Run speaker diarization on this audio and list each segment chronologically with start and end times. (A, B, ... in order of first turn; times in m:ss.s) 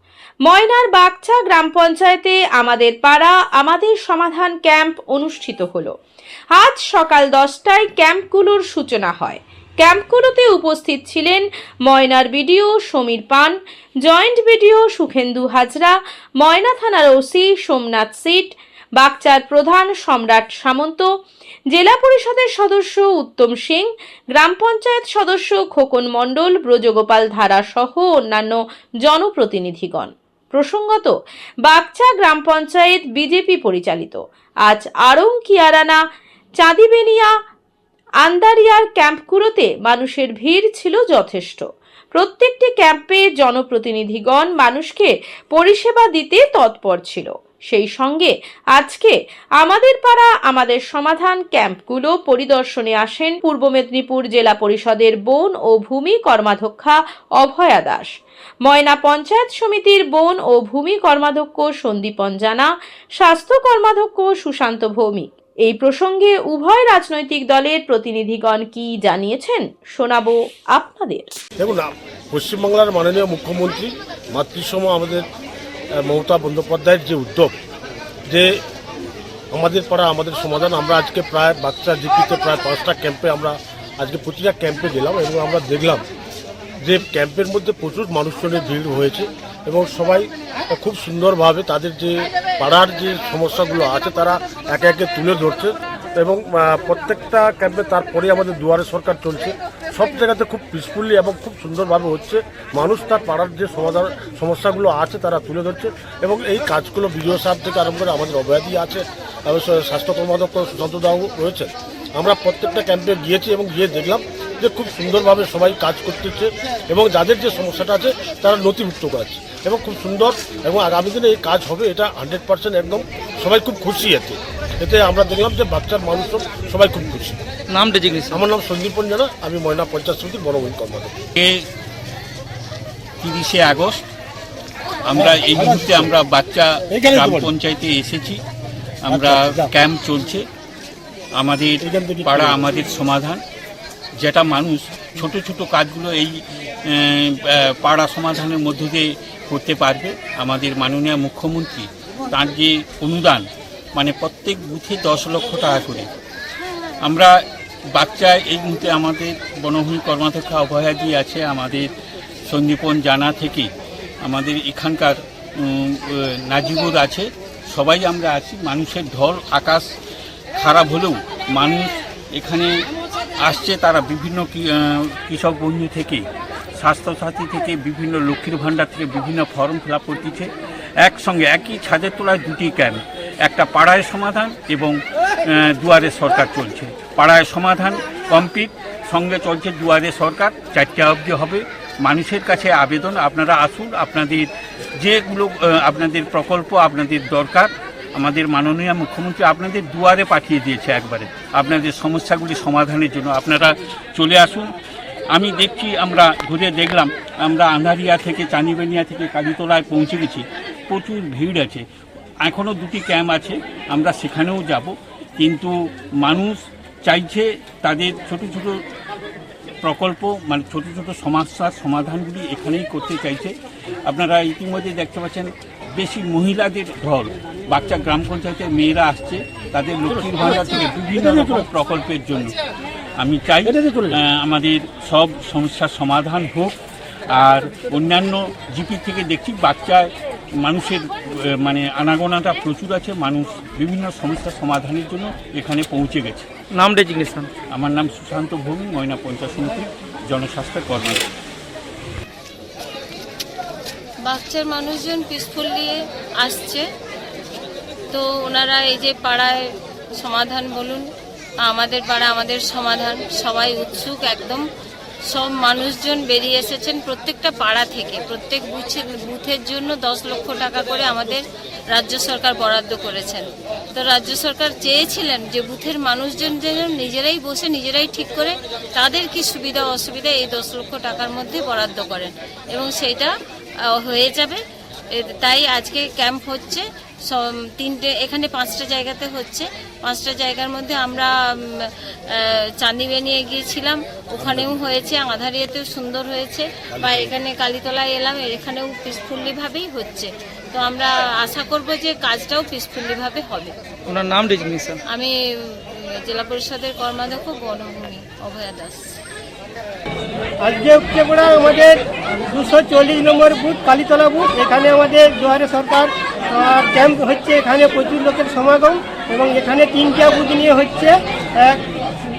0:00.4-0:05.9 A
0:06.5-0:21.1 A
0:21.7-0:31.1 A
0:31.6-0:36.0 A
0:36.6-0:37.3 A
0:38.2-0:58.1 A
0:58.6-1:11.3 A
1:11.6-1:15.2 B
1:16.0-1:17.5 B
1:19.5-1:26.0 B
1:26.8-2:07.4 B
2:07.7-2:08.4 C
2:08.3-2:11.1 B
2:11.4-2:11.6 D
2:13.2-2:14.0 D
2:15.0-2:18.4 D
2:15.2-2:16.1 B
2:16.9-2:17.5 B
2:19.0-2:20.4 D
2:19.1-2:19.7 B
2:21.3-2:23.4 D
2:21.8-2:22.7 B
2:24.2-2:36.1 D
2:37.0-2:41.9 D
2:42.5-2:43.7 D
2:44.2-2:49.8 D
2:50.6-2:52.7 D
2:53.4-2:56.2 D
2:56.8-3:00.5 D
3:01.0-3:24.6 D
3:25.3-3:31.8 D
3:32.4-3:38.8 D
3:39.8-3:43.5 D
3:44.0-3:52.5 D
3:50.1-3:51.6 B
3:53.2-3:56.7 D
3:53.6-3:54.1 B
3:57.3-4:06.5 D
4:06.7-4:07.5 C
4:07.7-4:11.2 D
4:14.2-4:16.8 E
4:18.1-4:19.6 E
4:20.2-4:21.1 E
4:21.6-4:24.6 E
4:25.3-4:43.3 E
4:43.9-4:44.6 E
4:45.1-5:03.8 E
4:54.4-4:54.7 B
4:56.9-4:57.3 B
5:04.1-5:05.0 C
5:05.1-5:09.0 E
5:10.6-5:12.0 F
5:12.5-5:21.8 F